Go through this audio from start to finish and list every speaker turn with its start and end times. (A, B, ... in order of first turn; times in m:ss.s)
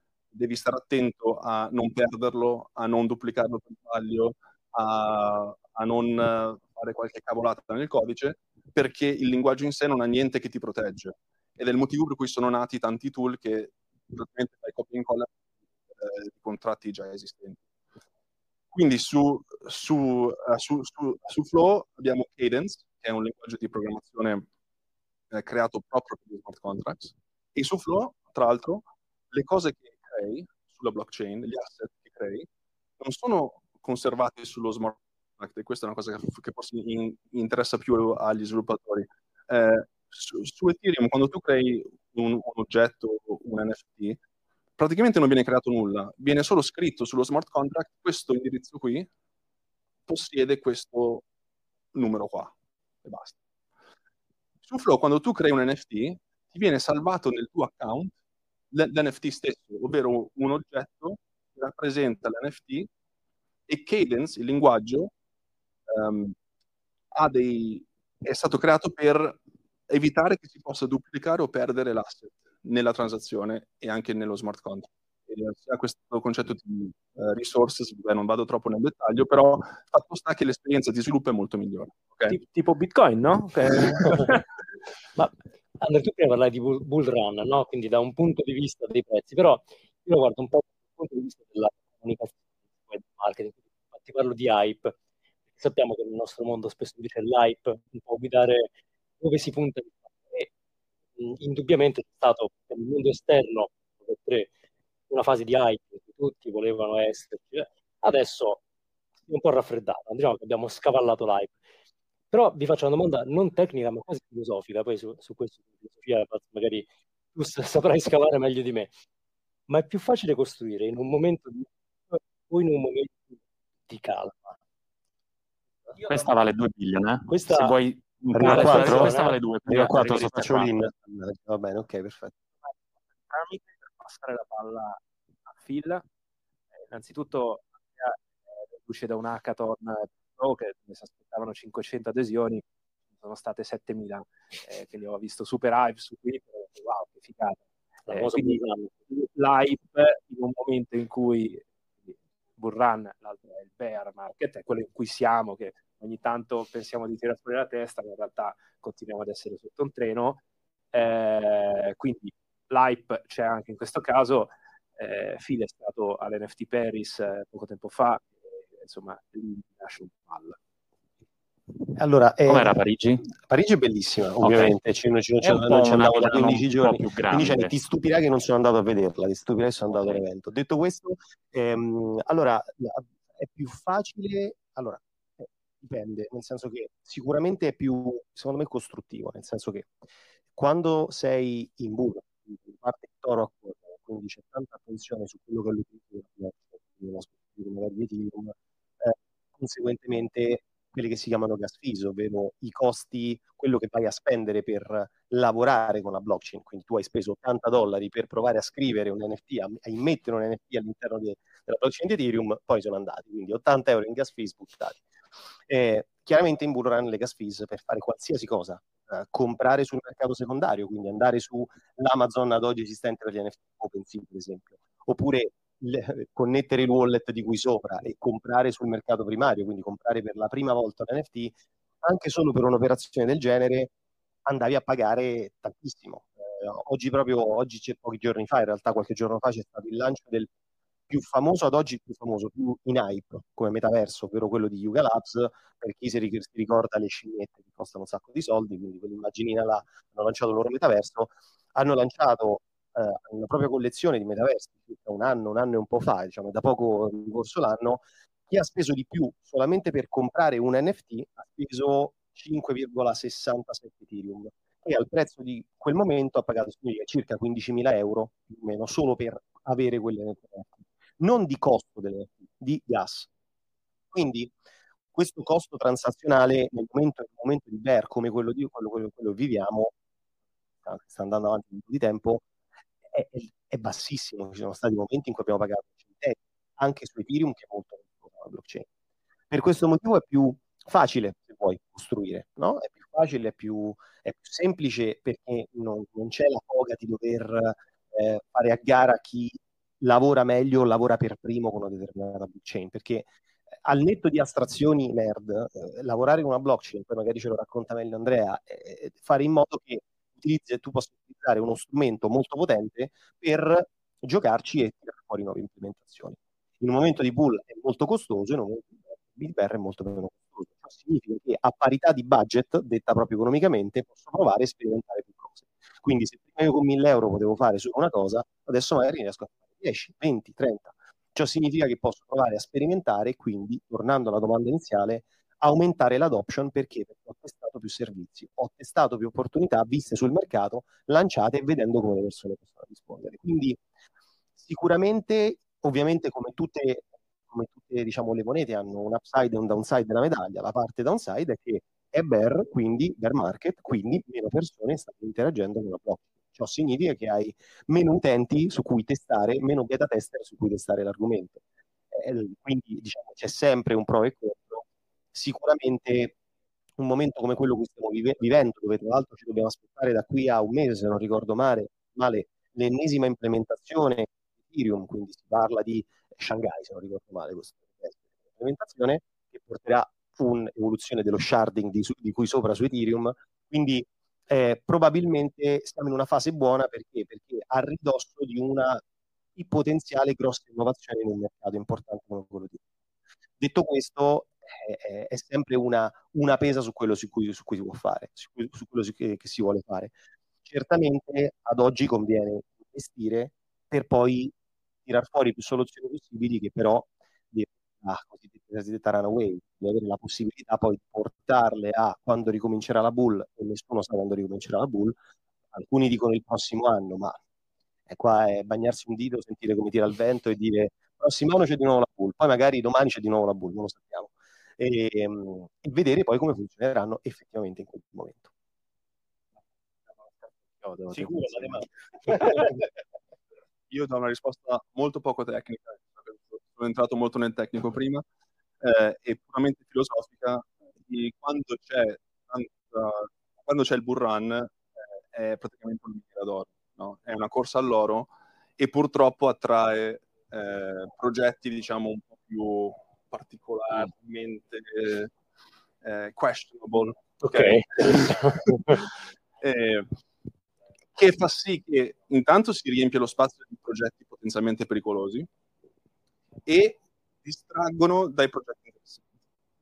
0:00.3-0:15.3 A
0:16.0-0:17.6 A
0:18.7-0:24.5 A
0:25.3-0:32.5 A
0:33.0-0:44.2 A
0:44.8-0:49.1 A
0:50.1-0:51.2 A
0:51.9-0:53.4 A
0:54.6-0:58.2 A
0:58.7-1:02.9 A
1:03.7-1:05.1 A
1:05.9-1:06.3 A
1:07.1-1:22.4 A
1:22.3-1:24.4 B
1:25.2-1:34.9 C
1:35.6-1:40.5 C
1:41.2-1:44.5 C
1:45.1-1:48.6 C
1:49.3-1:51.6 C
1:52.3-1:58.9 C
1:59.7-2:04.6 C
2:06.0-2:10.7 D
2:07.3-2:07.7 C
2:08.3-2:12.3 E
2:08.4-2:09.3 C
2:13.3-2:16.0 B
2:16.9-2:40.4 B
2:28.1-2:28.9 C
2:40.9-2:50.6 B
2:52.0-2:52.7 E
2:52.4-2:53.3 D
2:53.4-3:10.0 E
2:54.4-2:54.8 D
2:55.4-2:57.7 D
2:59.9-3:00.2 D
3:10.5-3:35.0 E
3:35.7-3:53.9 E
3:54.4-4:00.5 E
4:01.1-4:33.3 E
4:34.1-4:34.5 E
4:35.1-4:39.9 E
4:40.8-4:42.4 E
4:43.1-4:48.9 E
4:49.5-5:03.3 E
5:03.8-5:43.8 E
5:44.6-6:01.6 E
6:02.1-6:06.3 E
6:07.0-6:29.0 E
6:29.6-6:32.8 E
6:33.6-6:44.5 E
6:45.0-6:55.2 E
6:55.7-6:57.4 E
6:58.1-7:08.5 E
7:10.7-7:11.8 B
7:11.1-7:12.8 E
7:13.9-7:18.2 A
7:18.8-7:35.3 A
7:36.0-7:39.1 A
7:37.4-7:38.9 C
7:39.6-7:40.1 A
7:41.2-7:45.5 A
7:46.6-7:49.2 A